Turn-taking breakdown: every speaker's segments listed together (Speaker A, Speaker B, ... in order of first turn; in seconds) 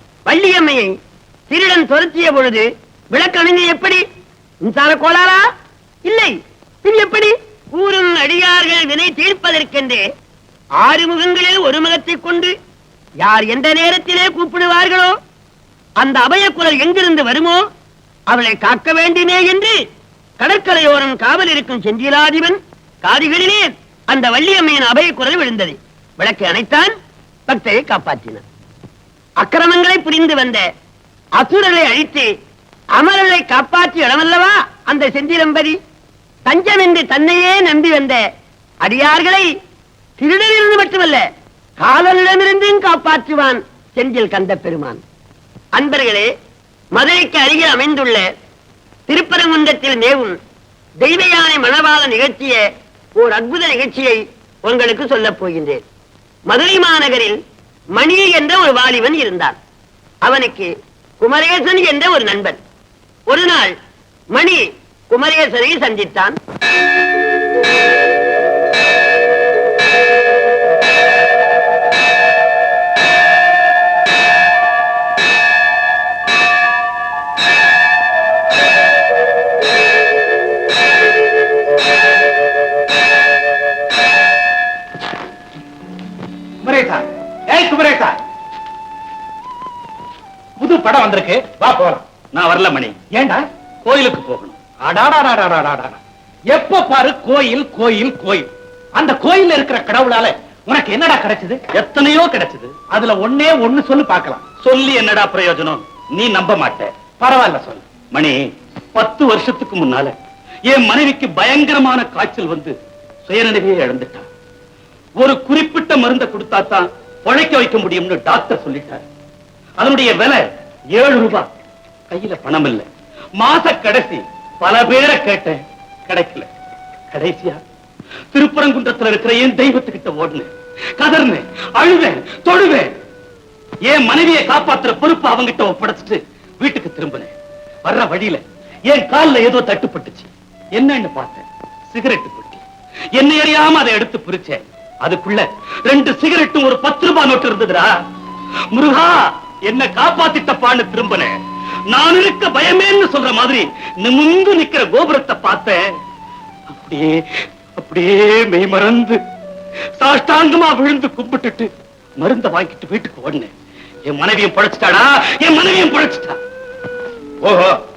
Speaker A: 0.3-0.9, 1.5-4.0, 4.6-5.4, 6.0-10.0, 10.8-12.5, 13.2-15.1, 16.0-17.6, 18.3-19.8, 20.4-26.9, 27.5-28.4, 29.4-30.7, 31.4-32.3, 33.0-35.8, 36.5-38.2, 38.8-39.5, 40.2-41.2, 41.8-45.0, 45.8-46.3, 47.0-48.3, 49.1-50.4, 51.0-55.8, 56.5-57.4, 58.0-59.6, 60.2-62.6, 63.3-63.7, 64.3-66.4
Speaker B: 86.6-88.2, 90.6-92.0, 93.1-93.4, 94.8-96.0, 96.5-101.6, 102.9-104.4, 107.2-107.8, 167.4-167.8
Speaker C: 92.3-93.0, 93.8-94.6, 101.7-102.8, 104.6-106.9, 108.1-108.4, 109.0-110.1, 110.7-114.3, 115.2-119.0, 119.8-121.5, 122.1-122.9, 123.4-126.5, 127.1-127.6, 128.3-132.9, 133.9-137.3, 137.8-142.6, 143.2-148.0, 148.7-151.3, 151.9-155.8, 156.7-159.2, 160.0-163.5, 164.1-166.4